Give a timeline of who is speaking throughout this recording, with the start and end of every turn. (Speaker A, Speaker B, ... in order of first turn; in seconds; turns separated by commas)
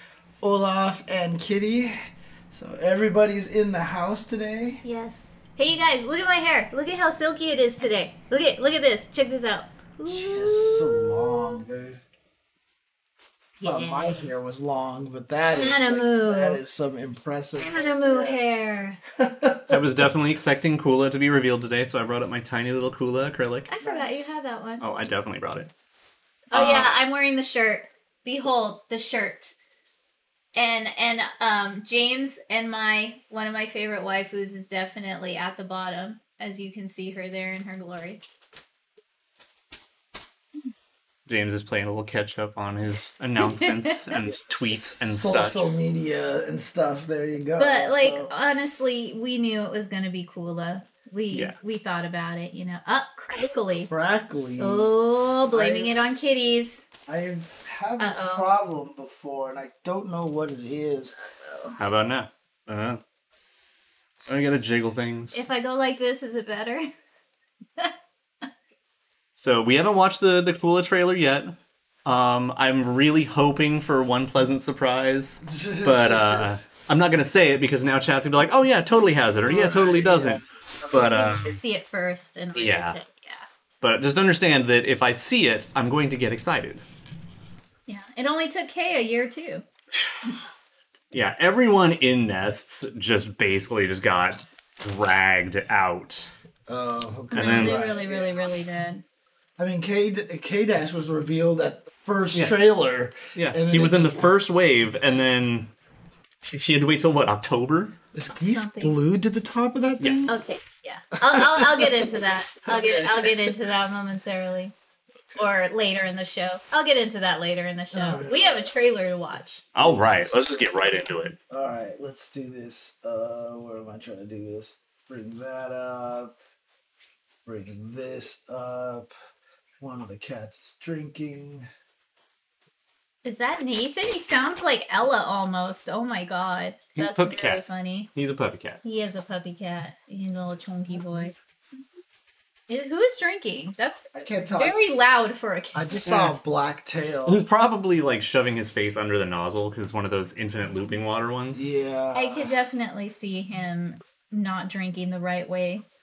Speaker A: 0.4-1.9, Speaker A: 2.5-4.8, Speaker B: 4.8-11.5, Speaker A: 10.1-12.0, Speaker B: 13.6-14.2, Speaker A: 13.6-18.4, Speaker B: 15.5-16.6, Speaker B: 17.6-19.0, Speaker A: 19.1-20.0, Speaker C: 19.7-23.7, Speaker B: 23.7-24.8, Speaker A: 23.8-24.3, Speaker C: 24.8-25.7, Speaker B: 26.5-29.5, Speaker C: 26.5-27.0, Speaker B: 30.5-38.2, Speaker C: 41.3-45.7, Speaker B: 43.4-43.7, Speaker A: 44.1-48.3, Speaker B: 47.6-53.9, Speaker A: 53.9-54.9, Speaker B: 54.6-56.9, Speaker A: 55.5-55.9, Speaker A: 57.1-61.1, Speaker B: 58.0-58.5, Speaker B: 61.5-61.8, Speaker C: 61.8-63.0, Speaker C: 64.3-65.4, Speaker B: 65.3-66.9, Speaker C: 69.4-81.6, Speaker A: 75.4-76.5, Speaker A: 79.4-81.5, Speaker B: 80.9-83.5, Speaker C: 82.5-83.0, Speaker C: 83.8-86.8, Speaker B: 87.9-89.6, Speaker C: 91.1-96.3, Speaker A: 96.7-98.5, Speaker C: 97.3-97.8, Speaker B: 97.3-99.0, Speaker A: 99.6-104.3, Speaker C: 102.3-102.6, Speaker C: 103.3-105.7, Speaker C: 106.4-108.0, Speaker A: 108.1-110.4, Speaker B: 108.2-109.0, Speaker C: 110.0-110.4, Speaker B: 110.3-114.7, Speaker A: 111.2-113.5, Speaker B: 115.3-119.6, Speaker A: 117.9-118.7, Speaker C: 119.7-121.4, Speaker A: 119.8-120.4, Speaker A: 121.5-126.3, Speaker A: 127.4-129.1, Speaker A: 129.8-131.7, Speaker B: 133.2-138.1, Speaker C: 136.9-137.6, Speaker C: 138.1-138.8, Speaker B: 138.8-141.3, Speaker A: 140.9-141.3, Speaker B: 142.7-146.0, Speaker A: 144.1-145.0, Speaker A: 145.7-147.4, Speaker C: 146.1-146.3, Speaker C: 147.2-151.7, Speaker A: 151.5-152.5, Speaker B: 152.1-155.8